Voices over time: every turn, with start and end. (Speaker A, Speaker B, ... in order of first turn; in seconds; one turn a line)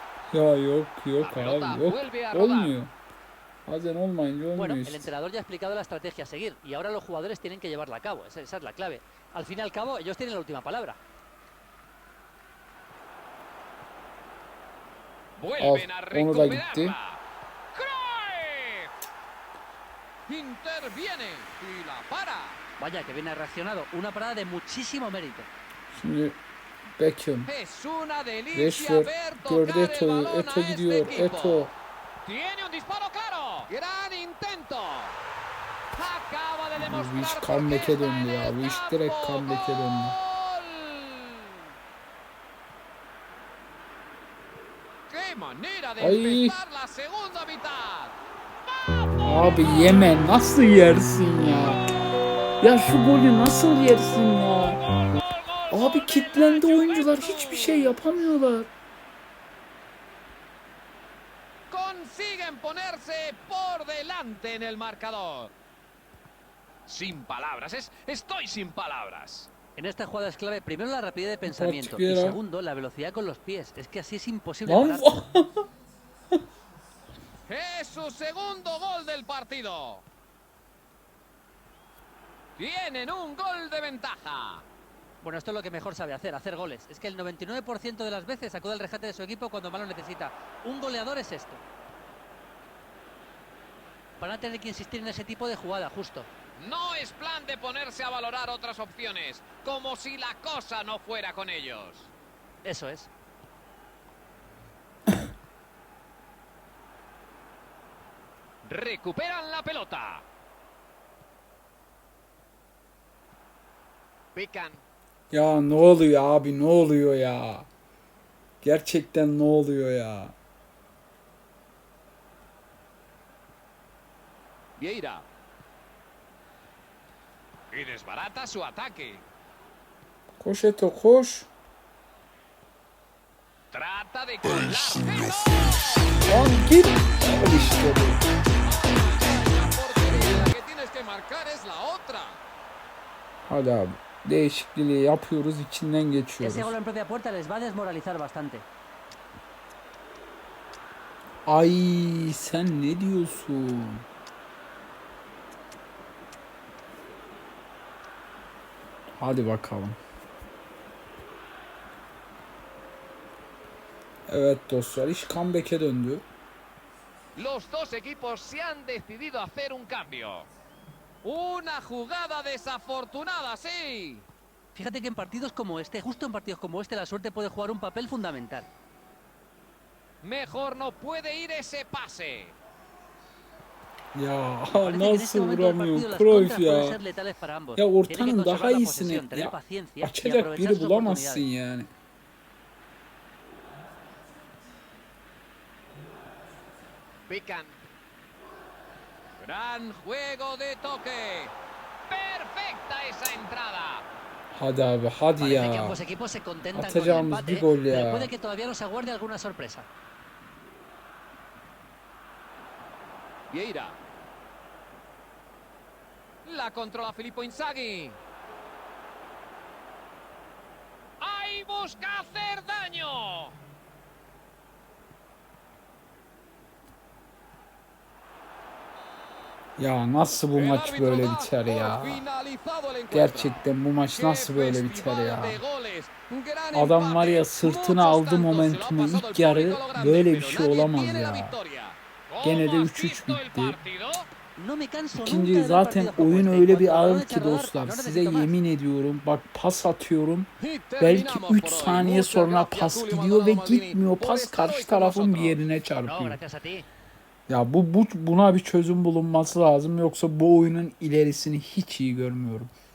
Speaker A: 0.3-2.9
Speaker B: 1.2-2.8
Speaker A: 3.7-5.1
Speaker C: 4.5-11.0
Speaker B: 15.4-17.2
Speaker A: 15.6-17.0
Speaker B: 17.7-18.9
Speaker B: 20.3-22.6
Speaker C: 22.8-25.5
Speaker A: 25.9-26.4
Speaker A: 27.0-27.5
Speaker B: 27.5-31.7
Speaker A: 28.5-31.7
Speaker B: 32.2-35.2
Speaker B: 35.9-41.5
Speaker A: 36.8-40.2
Speaker B: 45.1-48.1
Speaker A: 46.0-46.6
Speaker B: 49.0-50.2
Speaker A: 49.2-51.8
Speaker A: 52.6-54.8
Speaker B: 54.5-58.1
Speaker A: 55.7-58.7
Speaker B: 61.7-65.5
Speaker B: 66.9-69.5
Speaker C: 69.8-75.1
Speaker A: 71.5-72.4
Speaker A: 74.7-75.7
Speaker B: 77.5-80.0
Speaker B: 82.6-84.7
Speaker C: 85.2-91.6
Speaker C: 94.2-96.3
Speaker B: 96.6-102.1
Speaker C: 102.6-103.1
Speaker B: 108.6-110.2
Speaker B: 114.3-114.8
Speaker A: 115.3-117.7
Speaker A: 118.6-120.4
Speaker B: 124.8-125.3
Speaker B: 127.7-129.2
Speaker A: 130.4-131.5
Speaker B: 133.7-136.1
Speaker A: 136.3-138.2
Speaker B: 138.6-142.4
Speaker A: 140.1-140.5
Speaker A: 143.5-146.8
Speaker C: 146.4-148.7
Speaker A: 151.5-154.1
Speaker A: 159.2-160.0
Speaker A: 164.3-166.2
Speaker B: 167.3-170.5
Speaker B: 171.2-174.3
Speaker C: 174.7-178.7
Speaker B: 180.2-182.6
Speaker A: 184.1-187.0
Speaker C: 184.7-191.4
Speaker A: 187.8-191.9
Speaker B: 197.3-197.8
Speaker B: 199.4-201.5
Speaker B: 202.1-204.1
Speaker A: 204.5-206.0
Speaker C: 205.4-209.9
Speaker A: 206.7-208.3
Speaker B: 213.5-214.0
Speaker B: 216.4-218.2
Speaker B: 221.2-223.6
Speaker A: 229.8-232.2
Speaker B: 230.5-244.3
Speaker A: 233.1-235.6
Speaker A: 236.7-241.6
Speaker A: 242.4-243.8
Speaker C: 244.6-248.5
Speaker A: 245.1-256.4
Speaker B: 250.6-255.6
Speaker C: 256.0-256.9
Speaker A: 257.5-262.7